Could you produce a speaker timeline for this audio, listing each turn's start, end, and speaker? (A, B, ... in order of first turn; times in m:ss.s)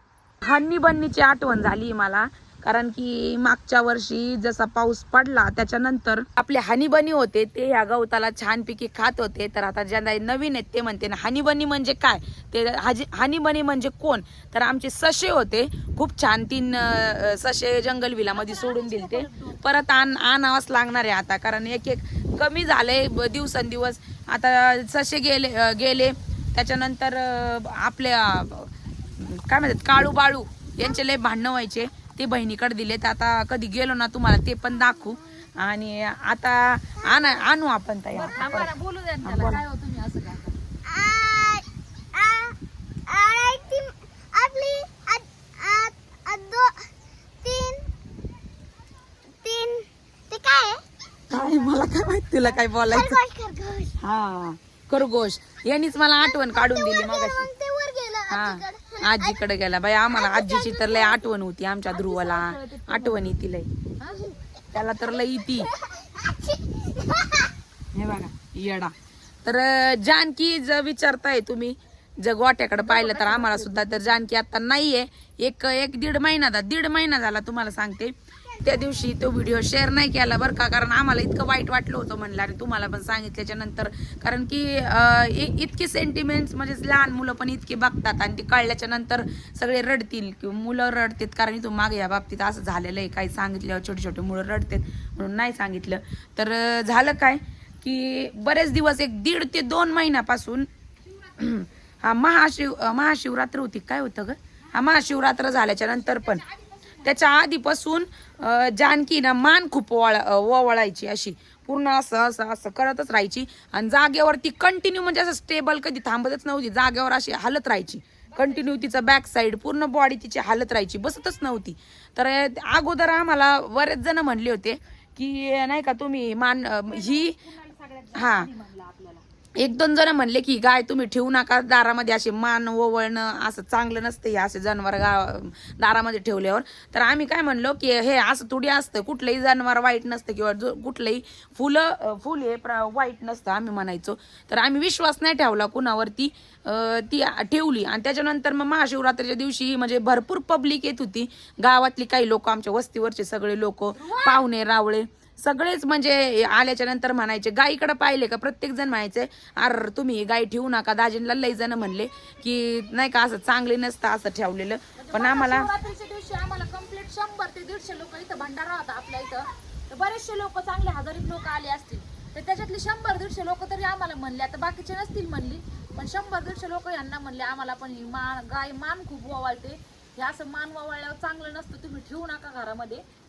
0:00.4-0:39.6 A
0:18.6-0:19.5 B
0:37.1-0:37.4 C
0:38.2-0:40.5 B
0:40.8-0:42.6 C
0:43.1-0:46.9 C
0:47.4-0:47.9 C
0:49.4-0:50.8 C
0:51.3-0:53.2 A
0:52.7-0:54.0 C
0:54.0-0:57.5 A
0:56.2-0:59.5 C
0:58.3-1:03.7 A
1:00.1-1:01.3 C
1:02.1-1:03.3 B
1:04.1-1:04.4 C
1:04.7-1:05.7 A
1:04.9-1:07.5 C
1:07.9-1:40.7 A
1:12.9-1:13.7 B
1:18.7-1:19.1 C
1:41.4-1:46.4 A
1:46.2-1:47.2 B
1:47.0-2:07.4 A
1:58.3-1:58.7 B
2:06.9-2:09.2 B
2:08.2-2:08.5 A
2:09.6-2:45.7 A
2:45.0-3:03.0 B